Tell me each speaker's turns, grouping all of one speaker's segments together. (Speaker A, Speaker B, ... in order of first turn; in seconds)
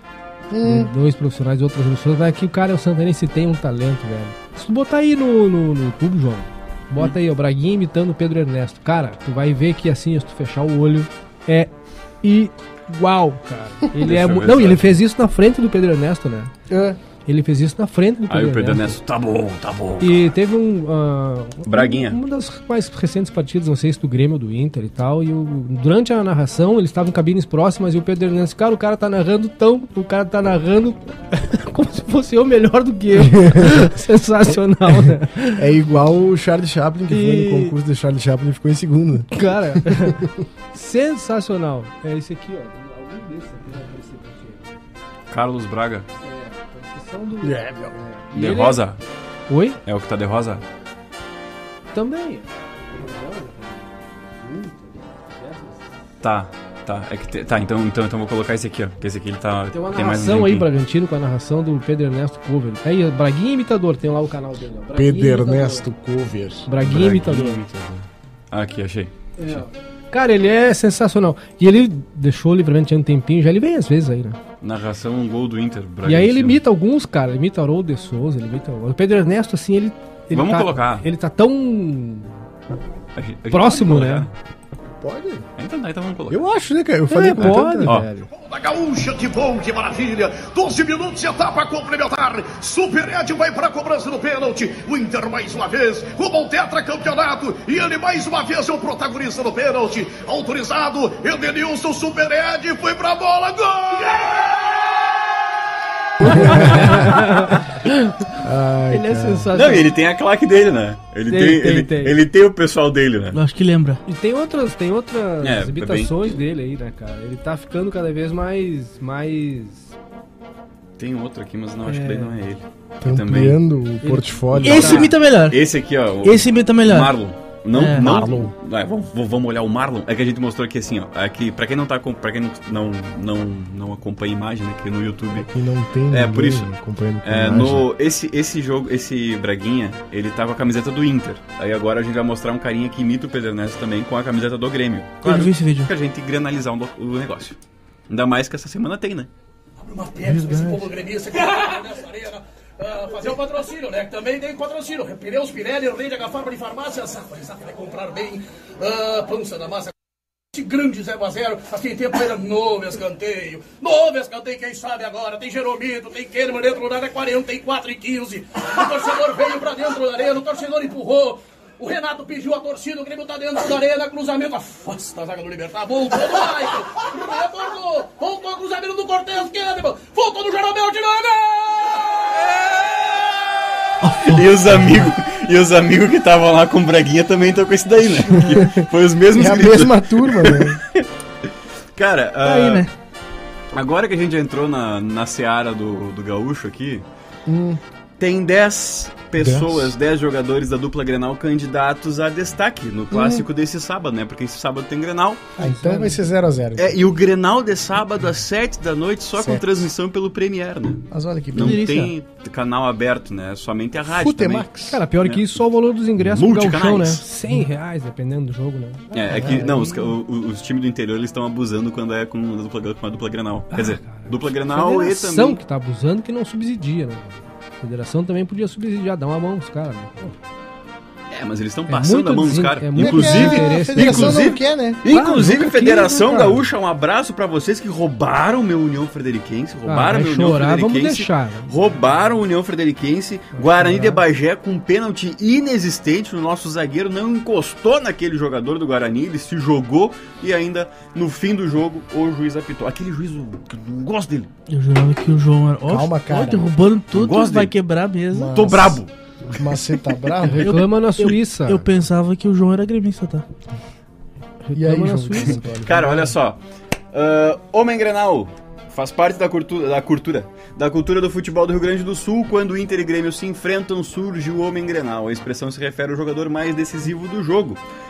Speaker A: 0.5-0.9, 16.7-17.0, 33.2-33.9, 35.5-40.3, 47.4-48.0, 64.9-66.7, 85.0-85.5, 86.3-88.0, 106.2-107.1, 108.3-109.5, 123.0-125.1, 128.0-128.5, 135.3-137.8, 188.4-190.8, 197.5-197.8, 199.3-199.9, 203.1-203.4, 205.6-207.0, 209.3-209.8, 211.1-211.8, 214.1-215.0, 219.2-219.9, 232.9-235.0, 255.8-256.7, 258.3-260.7, 264.7-266.1
Speaker B: 0.6-16.5, 17.2-18.9, 20.0-35.6, 37.1-37.8, 39.3-44.7, 46.2-48.8, 49.5-49.8, 51.9-55.8, 59.7-65.8, 66.7-67.6, 69.4-74.4, 76.0-82.4, 83.5-84.3, 87.1-88.3, 106.2-108.3, 108.9-109.9, 111.3-112.2, 114.0-119.9, 121.8-122.3, 124.0-125.1, 205.6-206.2, 214.9-220.0, 223.7-230.3, 231.9-234.5, 235.0-236.6, 239.9-241.9, 243.5-244.2, 260.4-261.9, 264.6-266.3
Speaker C: 14.0-15.0, 18.3-20.3, 21.6-22.2, 45.3-46.1, 48.3-49.0, 49.8-50.6, 56.2-60.7, 66.8-69.6, 74.6-76.6, 80.3-81.0, 83.1-84.3, 85.6-86.4, 87.4-88.1, 106.3-107.2, 109.5-113.4, 115.4-116.3, 121.0-123.6, 124.6-135.5, 136.1-136.7, 137.2-147.6, 148.1-149.3, 184.2-192.8, 193.7-197.0, 198.2-205.5, 206.8-215.4, 216.2-217.2, 219.1-225.6, 231.3-254.5, 257.1-257.7, 258.5-259.6, 265.8-266.6, 267.1-277.8
Speaker D: 88.3-105.0
Speaker E: 113.3-114.0, 124.6-125.6, 126.2-127.2, 127.7-128.2, 145.2-145.9, 150.2-150.9, 184.0-185.1, 192.4-192.9, 211.5-212.1, 254.7-258.9, 260.6-263.4
Speaker F: 149.8-159.9, 160.5-182.1